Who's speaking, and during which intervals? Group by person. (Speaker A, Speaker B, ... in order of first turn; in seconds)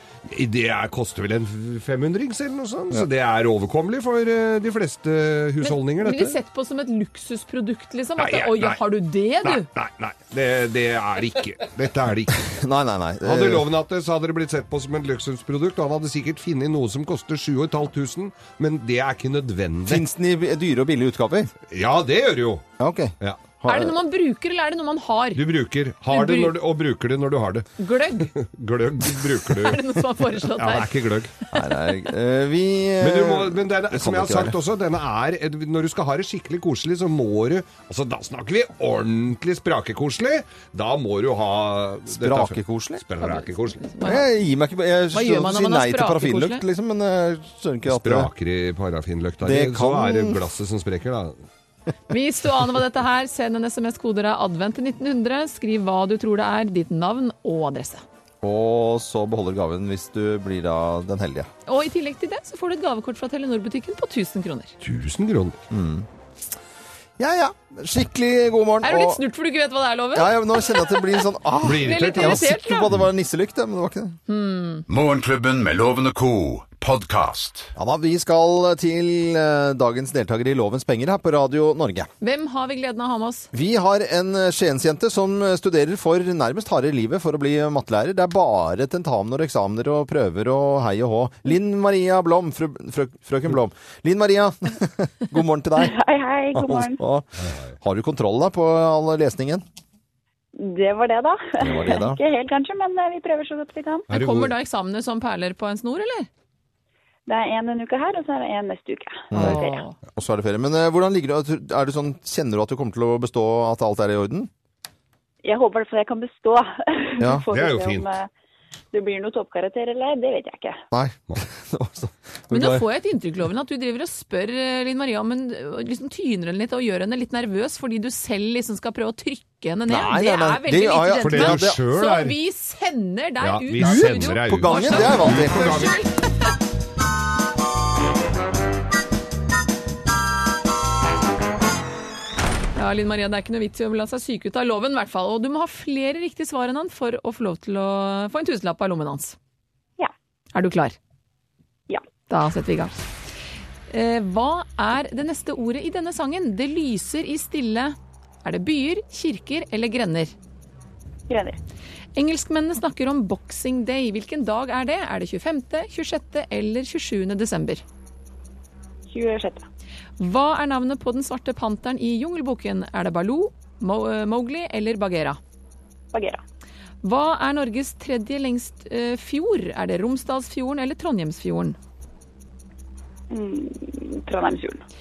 Speaker A: 0.3-6.4, 8.2-8.8, 9.4-12.4, 13.2-20.0, 21.7-22.6, 25.3-27.7, 28.2-29.8, 30.6-31.3, 33.0-43.8, 47.9-51.4, 64.8-65.6, 71.6-72.9, 97.4-97.7, 104.1-104.5, 117.5-118.1, 131.2-132.4, 133.4-136.0
Speaker B: 5.6-9.7, 23.6-25.4, 26.1-26.5, 27.8-28.3, 29.6-30.9, 43.2-44.3, 45.1-46.6, 52.1-58.0, 61.6-64.8, 68.8-71.2, 71.8-72.9, 74.3-74.8, 82.2-83.5, 104.1-106.3, 109.3-110.0, 122.5-136.1, 142.8-149.3, 150.5-151.0, 152.3-152.9, 153.9-160.3, 162.2-167.8, 170.2-175.4, 177.0-181.8
Speaker C: 12.4-13.7, 19.9-21.5, 22.8-23.9, 31.5-34.6, 42.1-43.0, 44.0-48.3, 49.4-50.4, 58.4-61.5, 65.7-66.1, 67.2-69.2, 70.1-74.2, 77.8-82.1, 83.5-96.0, 96.5-97.3, 97.8-99.6, 101.6-102.2, 109.3-109.6, 110.1-114.5, 117.2-117.5, 120.9-122.8, 129.9-131.8, 133.8-135.9
Speaker D: 74.9-77.7
Speaker E: 95.8-97.0, 100.5-104.1, 107.3-109.8, 115.4-118.3, 118.9-120.8, 161.3-161.6, 169.1-169.6, 176.1-176.4, 183.3-184.8